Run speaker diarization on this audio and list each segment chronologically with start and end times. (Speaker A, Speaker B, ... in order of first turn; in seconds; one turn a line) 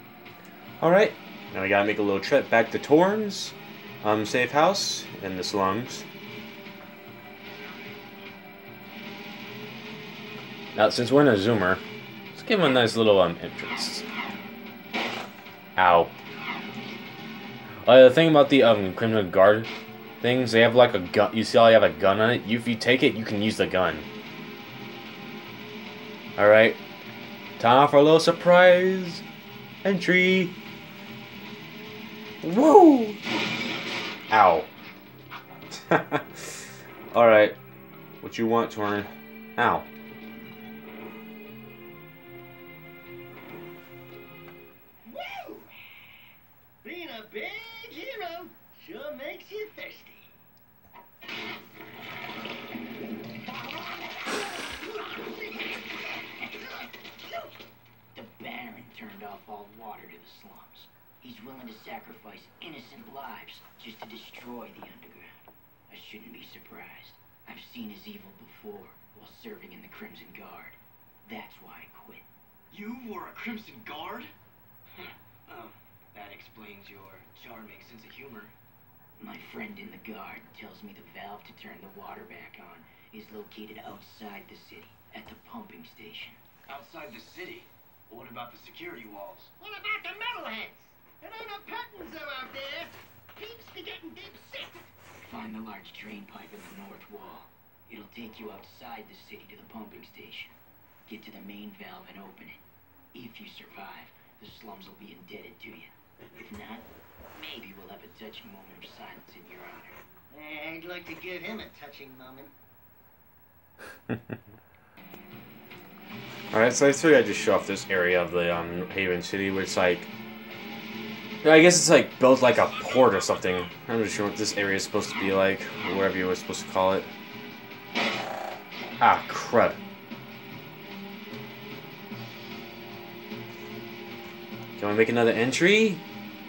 Speaker A: 0.8-6.0
Speaker A: 10.7-11.8
Speaker A: 12.3-14.1
Speaker A: 15.8-16.1
Speaker A: 17.8-24.1
Speaker A: 26.4-26.8
Speaker A: 27.6-29.2
Speaker A: 29.8-30.5
Speaker A: 32.4-33.2
Speaker A: 34.3-34.7
Speaker A: 35.7-36.6
Speaker A: 37.1-37.6
Speaker A: 38.2-39.9
Speaker B: 45.0-45.7
Speaker B: 46.8-50.3
Speaker B: 54.0-55.8
Speaker B: 56.5-56.8
Speaker C: 58.1-72.2
Speaker D: 72.7-74.3
Speaker D: 75.5-78.5
Speaker C: 79.2-86.4
Speaker D: 86.7-89.5
Speaker B: 89.6-94.9
Speaker C: 95.2-102.6
Speaker C: 103.1-110.0
Speaker B: 110.3-112.5
Speaker A: 116.5-120.1
Speaker A: 121.4-127.1
Speaker A: 129.0-129.8
Speaker A: 134.8-136.0